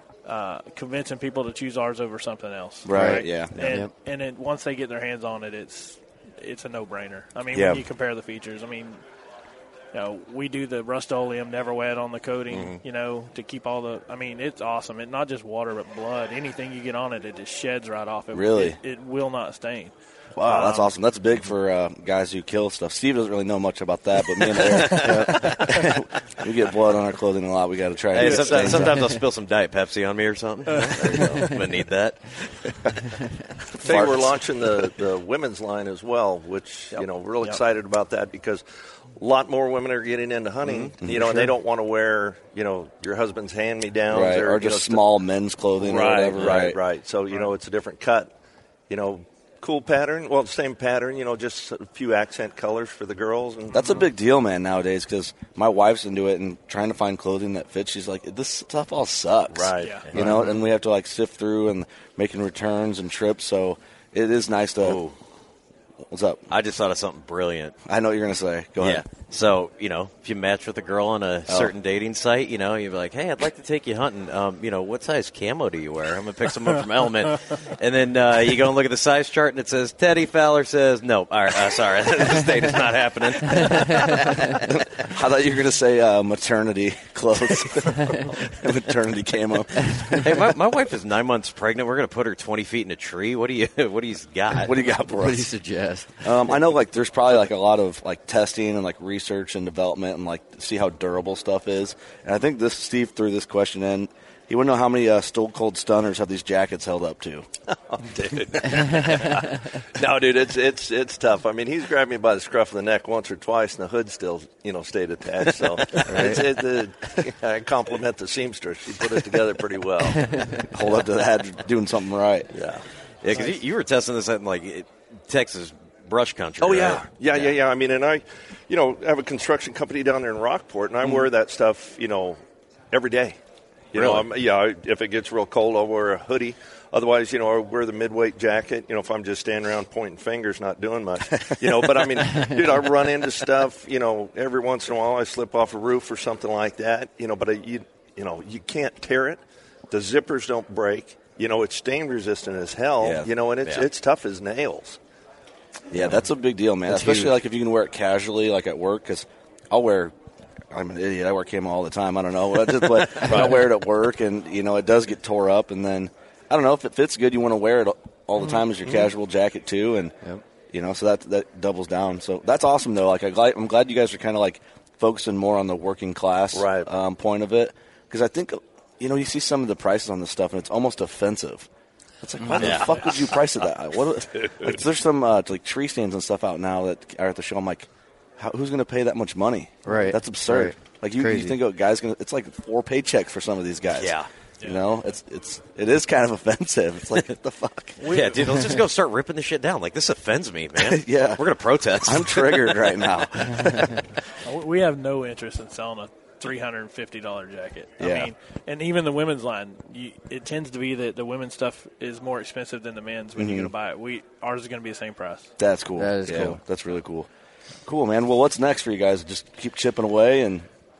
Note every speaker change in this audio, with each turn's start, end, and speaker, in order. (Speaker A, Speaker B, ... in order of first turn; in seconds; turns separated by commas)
Speaker A: 0.2-9.0, Speaker B: 2.8-3.8, Speaker C: 2.9-3.9, Speaker B: 7.5-7.8, Speaker A: 9.9-20.9, Speaker D: 12.5-12.8, Speaker B: 18.3-18.8, Speaker B: 20.4-29.1, Speaker D: 24.6-25.6, Speaker C: 24.9-25.4, Speaker D: 28.1-32.4, Speaker A: 28.2-28.9, Speaker A: 30.7-31.4, Speaker B: 33.8-34.4, Speaker E: 33.8-38.6, Speaker E: 39.1-45.0, Speaker D: 40.6-40.9, Speaker B: 41.0-41.5, Speaker B: 44.1-46.8, Speaker E: 45.8-48.3, Speaker E: 48.9-54.0, Speaker B: 53.7-65.0, Speaker E: 59.5-60.2, Speaker A: 59.8-60.1, Speaker D: 64.8-65.2, Speaker B: 66.1-66.4, Speaker D: 66.5-67.8, Speaker B: 67.8-69.0, Speaker D: 68.8-84.7, Speaker B: 71.5-71.7, Speaker B: 84.6-90.2, Speaker D: 90.0-94.7, Speaker B: 94.5-95.5, Speaker C: 95.1-96.6, Speaker B: 96.2-107.5, Speaker E: 107.7-120.6, Speaker C: 116.1-116.5, Speaker B: 120.7-122.5, Speaker E: 122.5-122.8, Speaker D: 123.2-127.5, Speaker E: 126.6-132.4, Speaker E: 132.9-133.4, Speaker E: 133.9-155.0, Speaker D: 133.9-134.3, Speaker B: 153.0-153.3, Speaker B: 155.9-160.1, Speaker C: 156.9-157.4, Speaker B: 160.7-170.1, Speaker E: 163.3-163.6, Speaker B: 170.7-181.7, Speaker E: 176.5-176.9, Speaker B: 182.2-187.9, Speaker E: 182.5-182.8, Speaker D: 182.6-183.1, Speaker B: 188.4-198.0, Speaker C: 189.8-191.6, Speaker D: 193.9-194.3, Speaker A: 198.0-198.7, Speaker D: 198.1-203.8, Speaker B: 200.8-201.4, Speaker B: 202.0-204.0, Speaker A: 204.4-215.5, Speaker B: 208.0-208.3, Speaker B: 213.3-213.7, Speaker B: 215.6-217.3, Speaker C: 216.0-216.6, Speaker B: 217.8-220.7